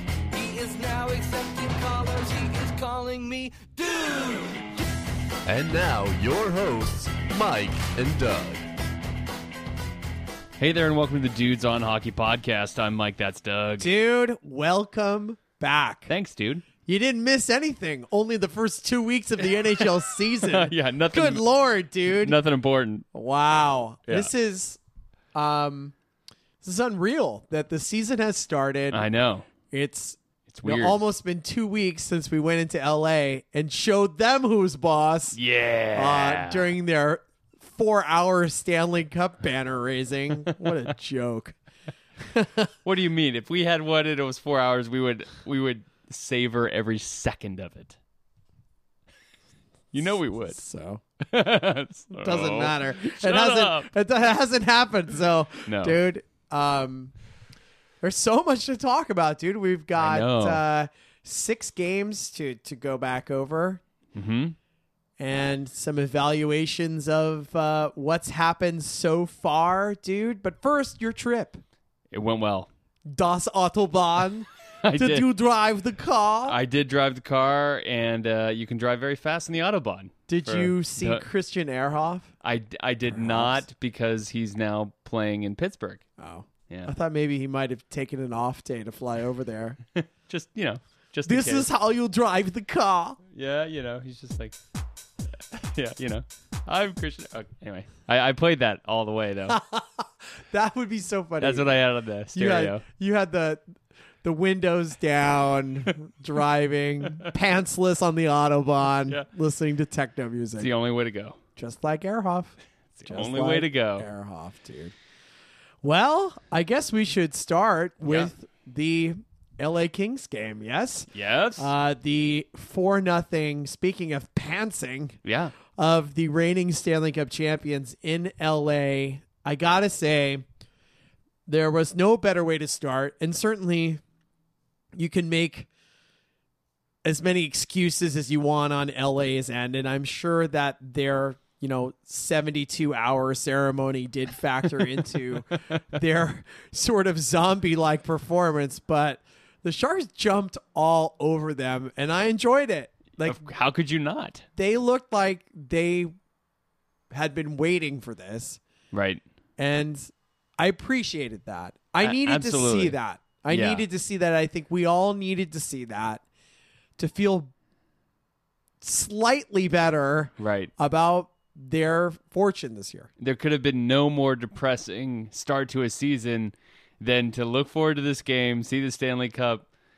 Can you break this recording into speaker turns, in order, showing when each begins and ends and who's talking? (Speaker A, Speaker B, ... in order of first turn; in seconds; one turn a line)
Speaker A: 0.3-4.8
Speaker B: 5.5-8.7
Speaker C: 10.6-13.9
Speaker D: 13.8-16.1
Speaker C: 16.1-16.6
Speaker D: 16.9-22.4
Speaker C: 20.4-21.4
Speaker C: 22.1-23.0
Speaker D: 23.1-24.8
Speaker D: 25.3-25.9
Speaker D: 26.6-29.0
Speaker C: 28.9-29.5
Speaker D: 29.7-35.4
Speaker C: 30.5-31.0
Speaker C: 35.3-36.7
Speaker D: 35.9-41.5
Speaker D: 42.2-42.7
Speaker C: 42.8-48.0
Speaker C: 49.9-50.6
Speaker D: 50.5-51.0
Speaker C: 51.2-53.9
Speaker D: 52.1-57.1
Speaker C: 55.7-56.0
Speaker D: 58.0-63.8
Speaker C: 60.0-60.6
Speaker C: 64.1-64.5
Speaker D: 65.2-71.6
Speaker C: 72.1-72.7
Speaker D: 73.1-76.6
Speaker C: 74.8-75.3
Speaker C: 76.5-81.2
Speaker D: 80.3-82.3
Speaker C: 82.4-86.0
Speaker D: 83.1-83.6
Speaker D: 86.2-89.8
Speaker C: 86.7-86.9
Speaker C: 90.0-91.7
Speaker D: 91.2-93.2
Speaker C: 93.3-94.6
Speaker C: 95.5-99.6
Speaker D: 99.5-101.8
Speaker C: 101.4-102.8
Speaker D: 102.3-103.6
Speaker D: 104.2-110.7
Speaker C: 110.6-111.4
Speaker D: 111.5-114.9
Speaker C: 113.0-114.1
Speaker D: 115.8-125.2
Speaker C: 118.0-118.3
Speaker C: 121.1-121.7
Speaker C: 125.2-125.5
Speaker D: 125.7-130.4
Speaker D: 131.5-134.0
Speaker D: 134.9-135.7
Speaker D: 137.0-153.4
Speaker C: 153.2-154.4
Speaker D: 154.6-156.1
Speaker D: 157.1-158.6
Speaker C: 158.9-159.2
Speaker D: 159.6-166.2
Speaker C: 162.0-162.9
Speaker C: 163.5-163.8
Speaker D: 167.0-167.5
Speaker D: 168.8-173.1
Speaker C: 170.4-170.7
Speaker C: 173.2-179.7